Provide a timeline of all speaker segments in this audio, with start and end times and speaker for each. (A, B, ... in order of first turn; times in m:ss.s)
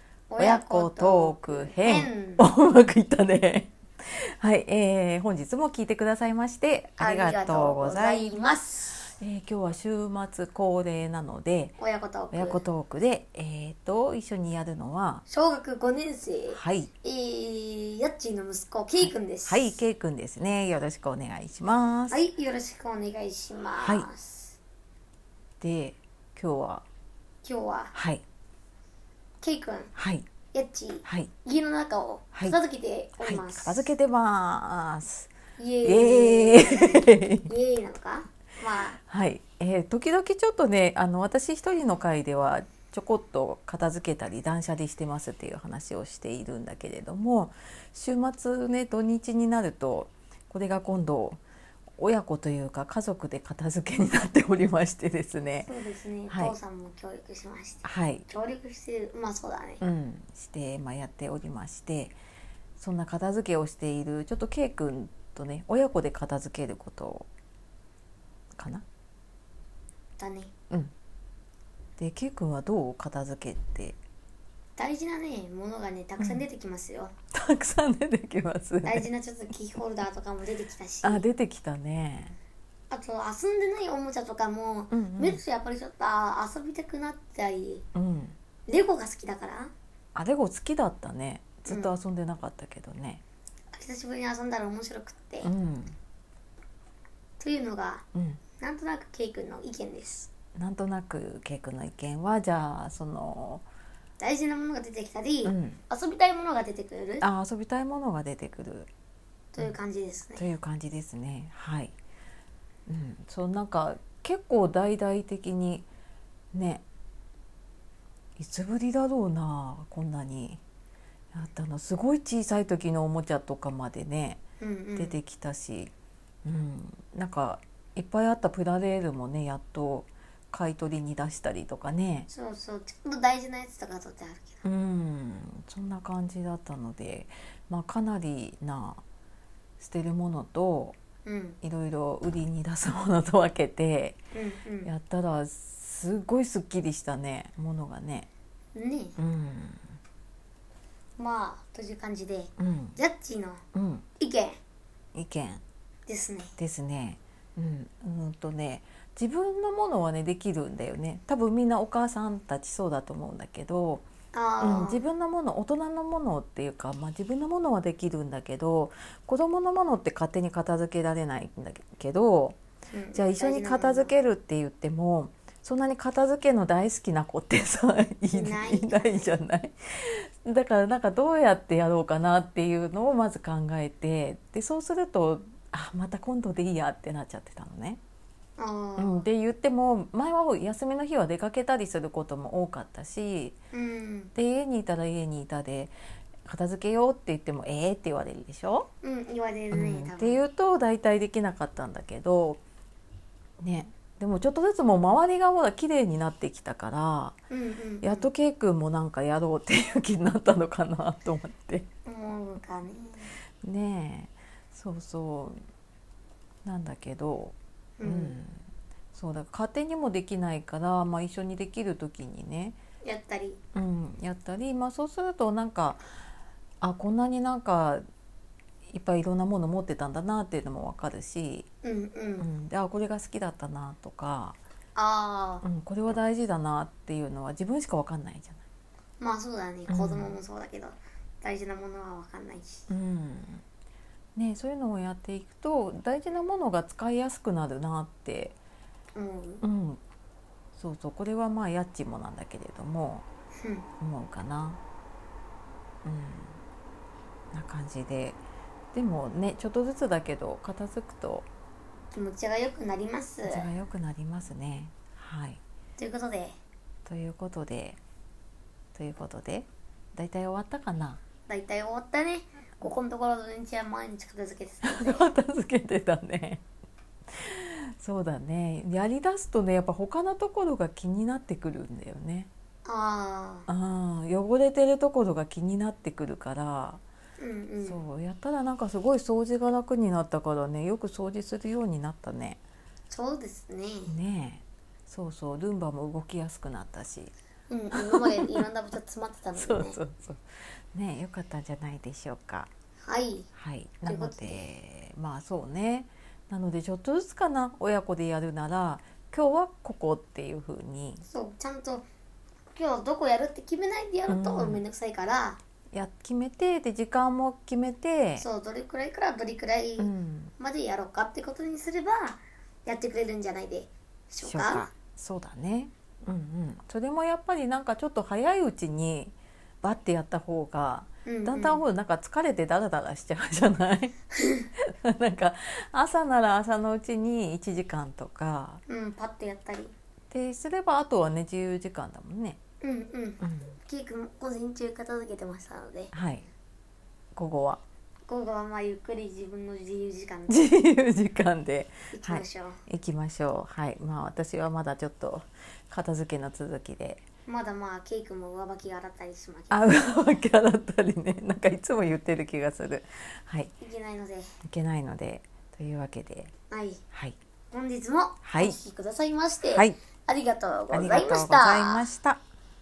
0:00.3-0:02.4 A
0:00.4-0:11.8 B
0:07.0-0:09.1 A
0:11.8-0:12.6 A
0:12.3-0:15.2 B
0:15.3-0:19.7 A
0:16.5-0:16.9 B
0:19.0-0:22.2 B
0:22.1-0:24.6 A
0:23.8-0:24.1 B
0:25.6-0:26.8 B
0:27.4-0:27.9 A
0:27.9-0:28.2 B
0:29.4-0:29.9 A
0:30.0-0:30.3 B
0:30.5-0:33.9 A
0:31.0-0:31.3 B
0:33.2-0:37.5 B
0:35.6-0:39.0 A
0:39.0-0:51.4 B
0:52.0-0:55.7 B
0:55.7-0:59.8 A
0:56.3-0:56.6 B
0:57.8-0:58.2 B
0:59.8-1:02.2 B
1:02.8-1:07.3 B
1:08.6-1:08.8 B
1:10.2-1:10.5 A
1:12.0-1:14.0 B
1:14.8-1:17.2 A
1:16.2-1:16.4 B
1:17.3-1:19.1 B
1:18.8-1:21.2 A
1:21.0-1:22.4 B
1:22.9-1:27.9 A
1:24.9-1:25.4 B
1:28.0-1:28.4 B
1:28.7-1:29.7 A
1:30.2-1:33.2 B
1:31.7-1:32.0 A
1:33.7-1:35.5 A
1:35.4-1:36.0 B
1:37.4-1:38.0 A
1:38.1-1:38.4 B
1:38.6-1:40.3 A
1:40.6-1:43.6 B
1:44.2-1:47.2 A
1:45.4-1:45.8 B
1:47.2-1:48.9 B
1:49.5-1:50.4 A
1:50.4-1:51.9 B
1:52.9-1:55.9 B
1:56.5-1:56.8 B
1:58.4-2:00.6 B
2:01.3-2:04.4 B
2:04.6-2:05.2 A
2:05.0-2:05.9 B
2:06.4-2:12.3 B
2:12.3-2:14.6 A
2:14.6-2:19.0 B
2:19.8-2:21.0 B
2:21.2-2:21.6 A
2:21.6-2:24.2 B
2:24.3-2:24.9 A
2:24.8-2:28.3 B
2:28.8-2:29.2 A
2:29.2-2:29.8 B
2:31.2-2:33.6 A
2:32.6-2:33.0 B
2:33.7-2:34.0 B
2:34.2-2:34.6 A
2:35.1-2:35.6 B
2:36.1-2:36.5 A
2:36.6-2:44.0 B
2:44.3-2:45.0 A
2:44.6-2:52.6 B
2:52.9-2:54.1 A
2:53.2-3:08.0 B
2:58.3-2:59.3 A
3:08.6-3:09.2 A
3:09.0-3:13.6 B
3:13.7-3:14.3 A
3:14.4-3:15.9 B
3:16.4-3:18.9 B
3:19.0-3:20.4 A
3:19.7-3:22.6 B
3:23.6-3:27.4 B
3:27.5-3:28.3 A
3:28.0-3:31.9 B
3:32.1-3:33.3 A
3:33.6-3:35.6 B
3:36.6-3:38.6 B
3:38.0-3:38.4 A
3:39.1-3:42.8 B
3:43.0-3:43.6 A
3:43.7-3:46.0 B
3:46.8-3:48.0 B
3:48.9-3:51.7 B
3:51.8-3:52.5 A
3:52.4-3:54.6 B
3:55.0-3:55.6 A
3:55.6-3:58.6 B
3:59.2-4:02.9 A
3:59.9-4:00.4 B
4:02.9-4:03.6 B
4:04.4-4:08.6 B
4:09.2-4:09.6 A
4:09.6-4:10.0 B
4:10.8-4:13.2 B
4:13.6-4:13.9 A
4:14.0-4:14.8 B
4:16.0-4:16.6 B
4:17.5-4:18.4 B
4:18.9-4:21.5 B
4:22.1-4:23.7 A
4:23.4-4:25.6 B
4:26.0-4:26.6 A
4:27.1-4:28.0 B
4:29.0-4:31.2 B
4:31.5-4:35.3 A
4:34.8-4:36.6 B
4:37.3-4:42.5 B
4:42.8-4:43.7 A
4:43.7-4:47.0 B
4:47.4-4:48.0 A
4:47.8-4:52.6 B
4:53.1-4:54.1 A
4:54.1-4:57.3 B
4:57.7-5:00.0 A
4:57.9-4:58.6 B
4:59.6-5:02.7 B
5:03.0-5:03.5 A
5:03.5-5:11.2 B
5:04.0-5:04.7 A
5:11.3-5:12.1 A
5:12.7-5:15.6 A
5:14.3-5:14.8 B
5:15.9-5:18.4 B
5:18.4-5:24.9 A
5:20.0-5:20.5 B
5:24.4-5:34.2 B
5:31.3-5:31.8 A
5:34.3-5:34.7 A
5:34.8-5:38.8 B
5:38.9-5:39.9 A
5:40.3-5:42.6 B
5:42.8-5:46.1 A
5:43.4-5:43.8 B
5:46.1-5:46.5 B
5:47.4-5:47.8 B
5:48.3-5:50.7 A
5:50.5-5:57.2 B
5:52.1-5:52.8 A
5:57.5-6:00.0 A
5:59.7-6:03.7 B
6:03.8-6:04.5 A
6:04.6-6:06.5 B
6:06.7-6:07.0 A
6:07.1-6:07.4 B
6:07.7-6:12.1 A
6:08.4-6:08.8 B
6:09.7-6:10.0 B
6:10.9-6:12.4 B